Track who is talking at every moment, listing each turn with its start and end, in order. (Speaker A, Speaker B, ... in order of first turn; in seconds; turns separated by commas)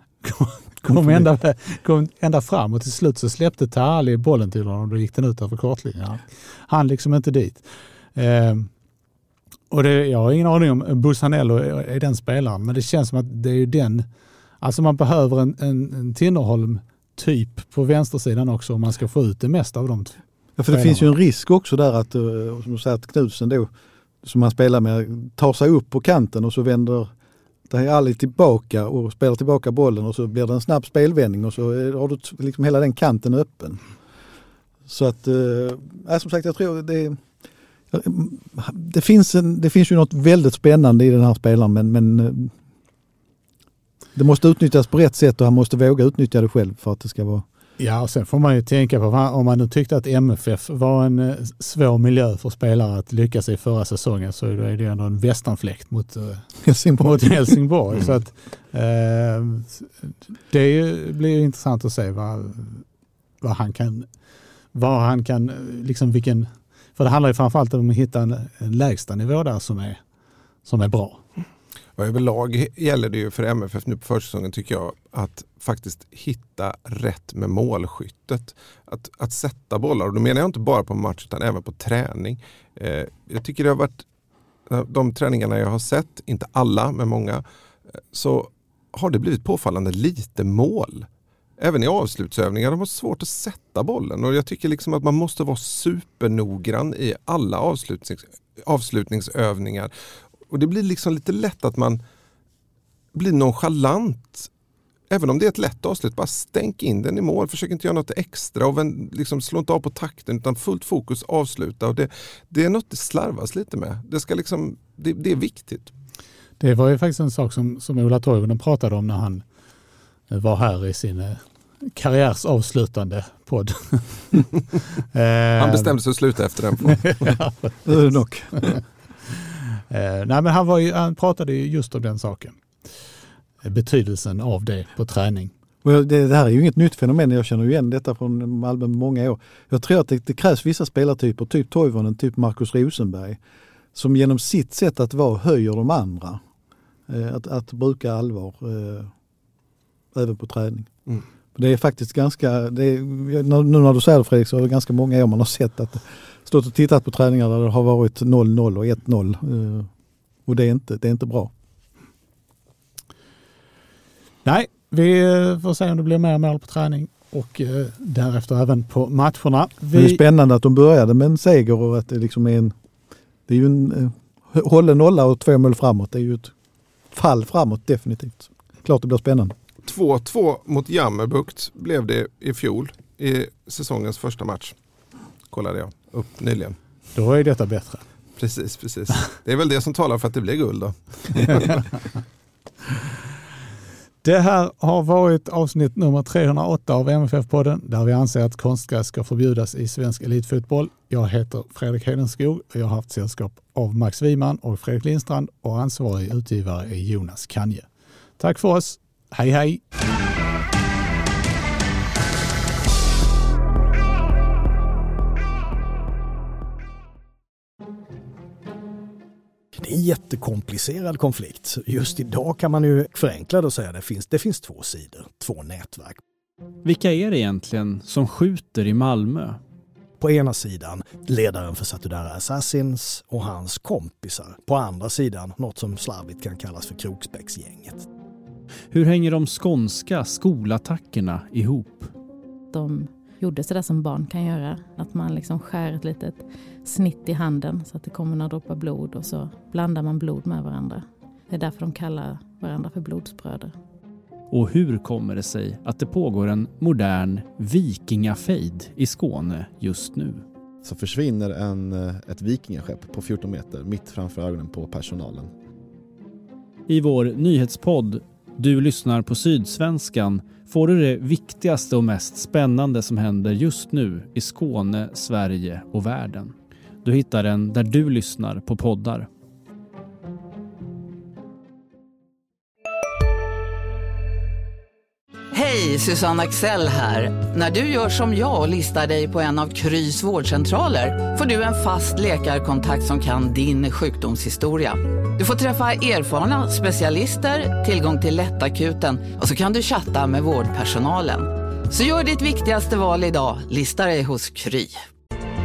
Speaker A: 0.2-8.7, Speaker A: 9.7-14.1, Speaker A: 14.6-20.2, Speaker B: 20.6-23.7, Speaker A: 20.7-21.1, Speaker B: 24.2-27.1, Speaker B: 27.7-33.8, Speaker B: 34.9-37.2, Speaker B: 37.9-42.5, Speaker B: 44.1-47.5, Speaker A: 47.8-56.4, Speaker B: 56.6-57.6, Speaker A: 57.0-62.9, Speaker A: 63.4-64.1, Speaker A: 64.7-70.0, Speaker A: 70.7-71.2, Speaker C: 72.0-84.0, Speaker C: 84.7-87.4, Speaker C: 88.1-91.1, Speaker C: 91.6-99.9, Speaker C: 100.5-102.0, Speaker C: 103.2-104.5, Speaker C: 105.1-115.9, Speaker A: 116.6-119.4, Speaker A: 120.3-124.5, Speaker A: 125.1-126.0, Speaker C: 125.6-127.3, Speaker A: 126.9-128.1, Speaker B: 127.8-128.5, Speaker A: 129.8-132.6, Speaker A: 133.6-135.5, Speaker B: 135.8-143.4, Speaker B: 143.9-146.4, Speaker B: 147.1-149.1, Speaker B: 150.1-150.9, Speaker B: 151.6-159.9, Speaker B: 160.5-161.5, Speaker A: 164.4-170.2, Speaker B: 169.9-172.7, Speaker B: 173.5-176.5, Speaker B: 177.1-179.6, Speaker C: 179.8-184.8, Speaker C: 185.5-186.8, Speaker A: 187.2-188.0, Speaker C: 188.4-191.9, Speaker A: 194.2-207.9, Speaker A: 208.4-209.8, Speaker D: 219.8-226.2, Speaker E: 226.8-229.6, Speaker D: 230.2-238.1, Speaker E: 238.9-242.1, Speaker F: 242.7-253.7, Speaker E: 254.5-260.4, Speaker G: 260.8-265.5, Speaker E: 266.9-279.3, Speaker H: 285.5-305.1